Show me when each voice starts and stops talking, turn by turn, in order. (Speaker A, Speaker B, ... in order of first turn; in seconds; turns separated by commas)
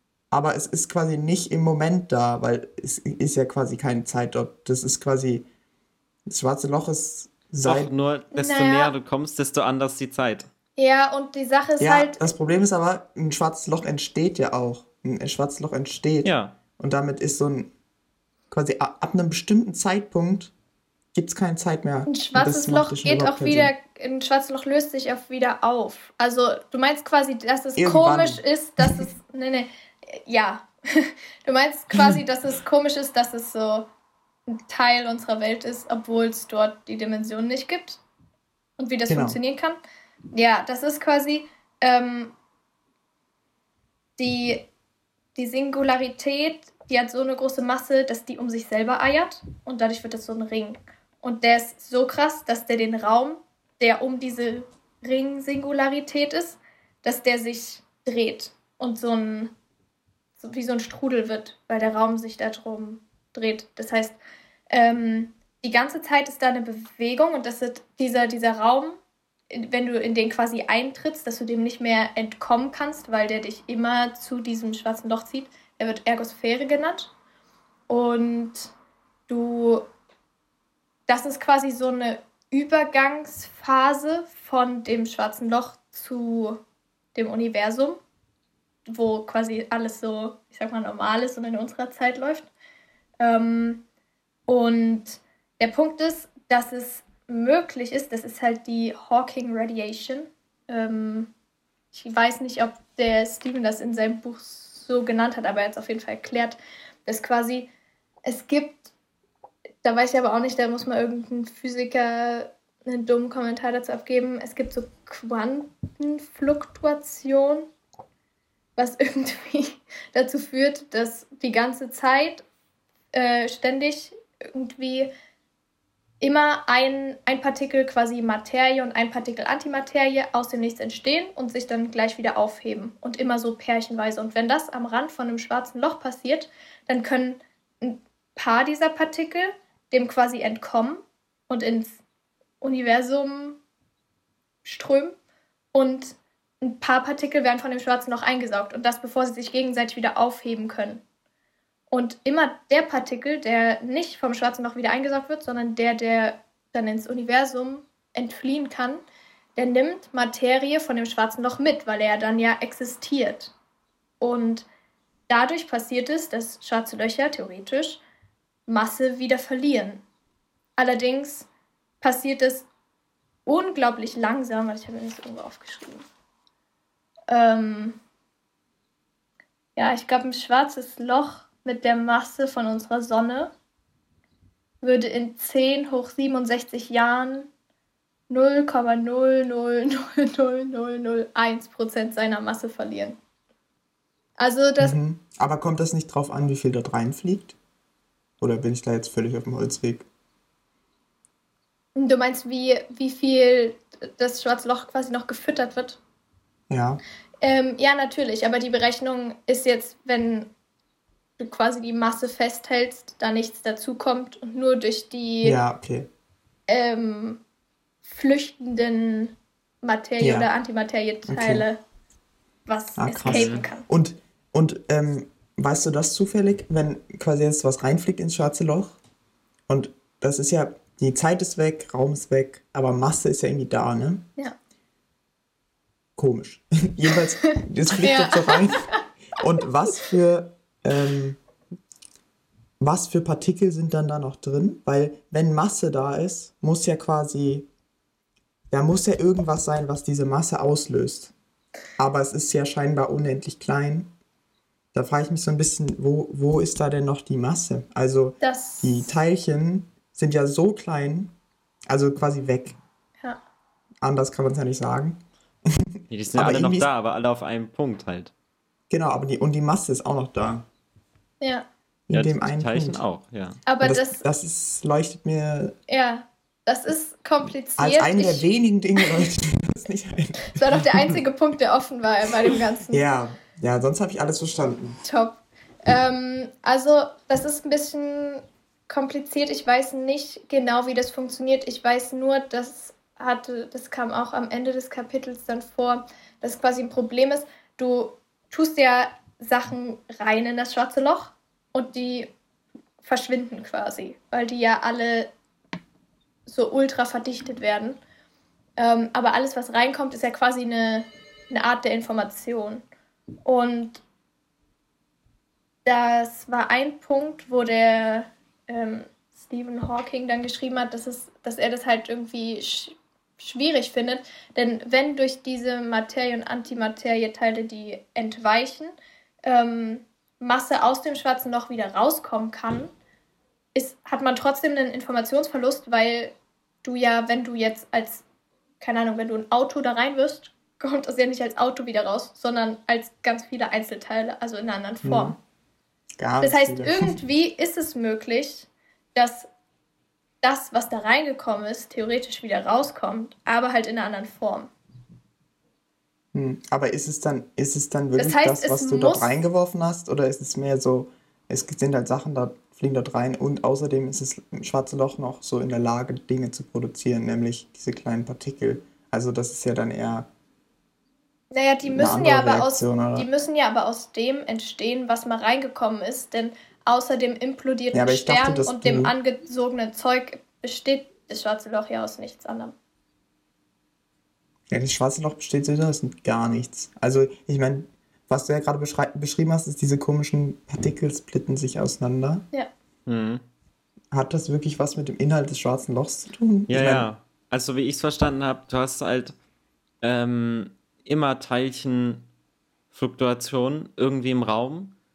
Speaker A: 0.3-5.5, Speaker A: 6.3-7.9, Speaker B: 7.6-10.5, Speaker C: 8.3-8.9, Speaker C: 10.8-12.2, Speaker A: 11.8-17.7, Speaker B: 16.2-16.6, Speaker A: 18.5-20.5, Speaker A: 21.1-23.7, Speaker C: 22.1-33.9, Speaker A: 27.8-29.1, Speaker A: 31.9-32.2, Speaker C: 34.5-38.0, Speaker C: 38.8-39.8, Speaker A: 39.1-39.4, Speaker C: 40.3-42.3, Speaker C: 44.2-44.7, Speaker C: 45.4-59.5, Speaker C: 60.4-64.2, Speaker C: 64.7-69.0, Speaker C: 69.5-77.1, Speaker C: 77.9-78.7, Speaker C: 79.3-79.9, Speaker C: 81.1-86.6, Speaker C: 87.2-88.0, Speaker C: 88.9-92.5, Speaker C: 93.2-93.8, Speaker C: 94.5-101.3, Speaker C: 101.9-107.7, Speaker C: 108.2-108.9, Speaker C: 109.8-117.7, Speaker C: 118.8-122.5, Speaker C: 123.1-125.1, Speaker C: 126.2-142.0, Speaker C: 142.6-143.6, Speaker C: 144.7-145.2, Speaker C: 145.7-151.0, Speaker C: 151.9-159.0, Speaker C: 159.6-163.5, Speaker C: 164.2-164.7, Speaker C: 165.3-168.0, Speaker C: 168.7-170.0, Speaker C: 170.8-171.5, Speaker C: 172.0-172.7, Speaker C: 173.5-176.0, Speaker C: 177.3-178.0, Speaker C: 179.8-183.5, Speaker C: 184.8-187.5, Speaker C: 188.3-193.2, Speaker C: 194.4-195.0, Speaker A: 194.8-197.6, Speaker A: 198.4-200.1, Speaker C: 201.9-206.0, Speaker A: 206.7-207.0, Speaker C: 207.4-210.5, Speaker C: 211.4-215.6, Speaker A: 215.4-216.1, Speaker C: 216.7-217.4, Speaker C: 218.1-221.8, Speaker A: 220.2-220.5, Speaker A: 221.3-221.7, Speaker C: 222.7-223.9, Speaker A: 223.0-229.0, Speaker B: 223.3-223.6, Speaker A: 229.7-234.3, Speaker A: 236.2-241.4, Speaker C: 237.5-239.0, Speaker A: 242.8-247.7, Speaker A: 248.7-251.3, Speaker A: 252.0-254.1, Speaker A: 254.9-261.3, Speaker C: 258.4-259.1, Speaker A: 261.9-262.8, Speaker A: 264.0-265.2, Speaker A: 265.7-266.9, Speaker B: 266.1-268.3, Speaker A: 268.9-270.6, Speaker C: 271.4-271.7, Speaker A: 272.1-273.0, Speaker B: 272.1-273.6, Speaker C: 273.7-274.2, Speaker A: 273.8-275.8, Speaker C: 275.9-278.5, Speaker A: 277.8-281.2, Speaker C: 279.0-279.3, Speaker C: 280.6-283.0, Speaker A: 282.9-285.0, Speaker C: 285.0-302.3, Speaker C: 303.0-305.3, Speaker C: 306.5-308.0, Speaker C: 308.8-312.9, Speaker C: 313.4-314.0, Speaker C: 315.9-328.9, Speaker C: 329.4-332.9, Speaker C: 333.8-338.2, Speaker C: 338.8-345.4, Speaker A: 345.0-345.4, Speaker A: 346.2-347.2, Speaker C: 346.4-349.5, Speaker C: 350.4-354.7, Speaker A: 356.3-370.3, Speaker C: 358.2-359.3, Speaker C: 371.5-382.8, Speaker A: 371.8-373.3, Speaker A: 377.9-379.1, Speaker A: 384.7-392.4, Speaker B: 393.1-393.4, Speaker A: 394.1-397.1, Speaker B: 396.7-399.4, Speaker B: 400.0-402.3, Speaker B: 402.9-404.9